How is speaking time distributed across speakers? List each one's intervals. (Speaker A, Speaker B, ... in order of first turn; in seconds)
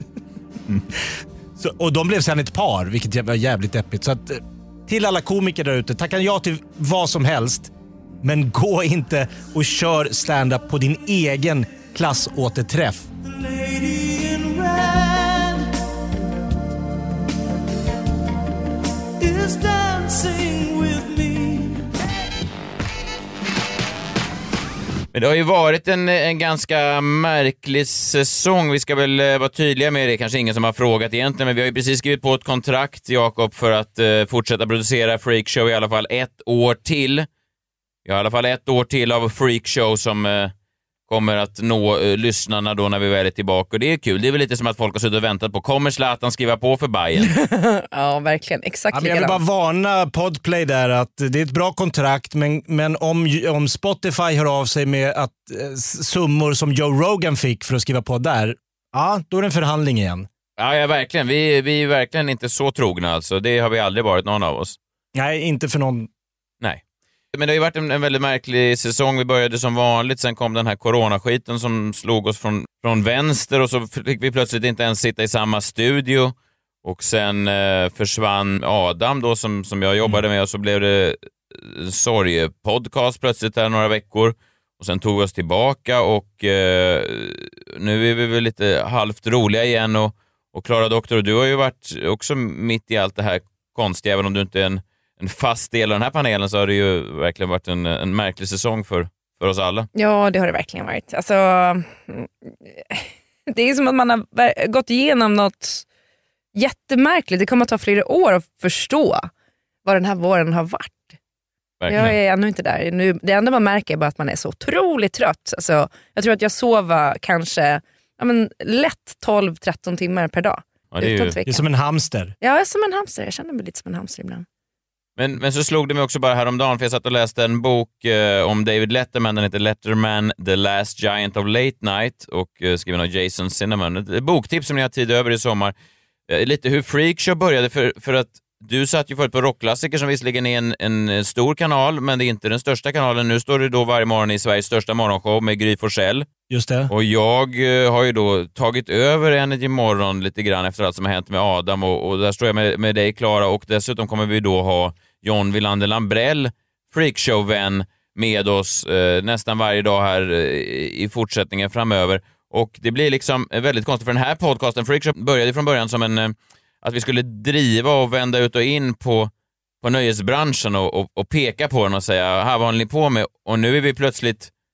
Speaker A: 1.6-7.7, 8.2-13.1, 48.9-60.3, 65.2-66.1, 121.5-122.3, 146.5-146.9
Speaker B: 13.3-15.7, 19.2-21.9
Speaker C: 25.1-37.3, 38.0-40.5, 41.1-47.3, 60.6-64.8, 67.3-99.9, 111.8-112.2, 120.9-121.3, 125.2-135.7, 136.3-146.3, 146.9-169.3, 169.8-174.5
Speaker D: 47.2-49.4, 100.0-105.9, 106.5-109.3, 109.8-111.2, 111.9-121.7, 122.4-124.5